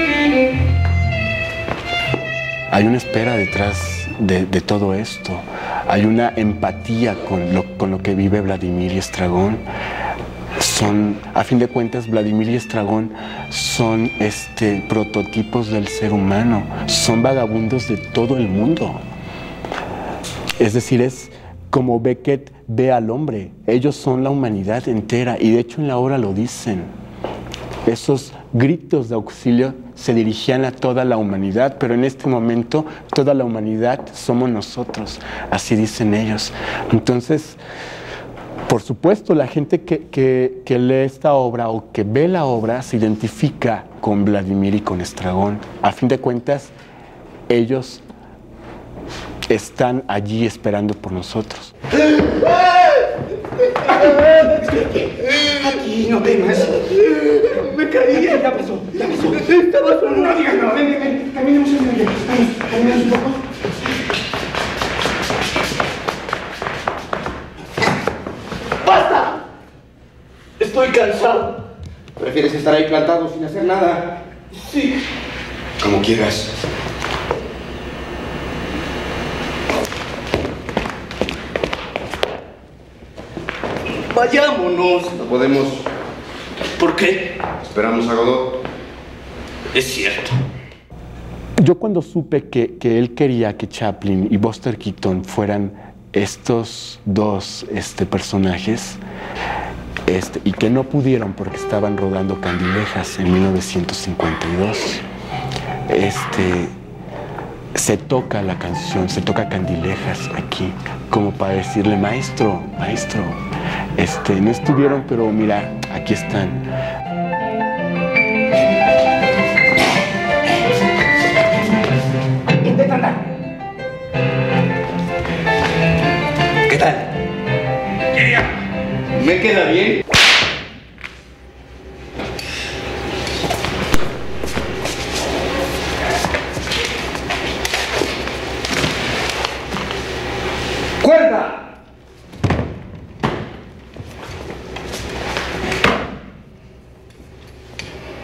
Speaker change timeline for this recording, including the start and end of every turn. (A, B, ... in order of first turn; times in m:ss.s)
0:02.7-0:09.7 A
0:10.6-0:19.0 A
0:20.6-0:27.0 A
0:27.9-0:37.6 A
0:38.7-0:46.8 A
0:47.5-0:48.0 A
0:49.5-0:51.8 A
0:53.9-0:56.9 B
0:57.7-0:58.4 C
0:58.0-1:03.4 B
0:59.6-1:00.2 C
1:08.8-1:09.4 C
1:10.6-1:11.6 C
1:12.2-1:14.2 B
1:14.7-1:14.9 C
1:15.8-1:16.5 B
1:24.1-1:25.1 C
1:25.0-1:25.9 B
1:26.8-1:27.4 C
1:27.6-1:28.6 B
1:29.7-1:30.4 C
1:31.6-1:39.0 A
1:40.1-1:45.0 A
1:45.9-1:46.8 A
1:47.8-1:53.4 A
1:54.0-1:56.6 A
2:02.6-2:03.2 B
2:09.2-2:10.0 C
2:21.0-2:21.5 C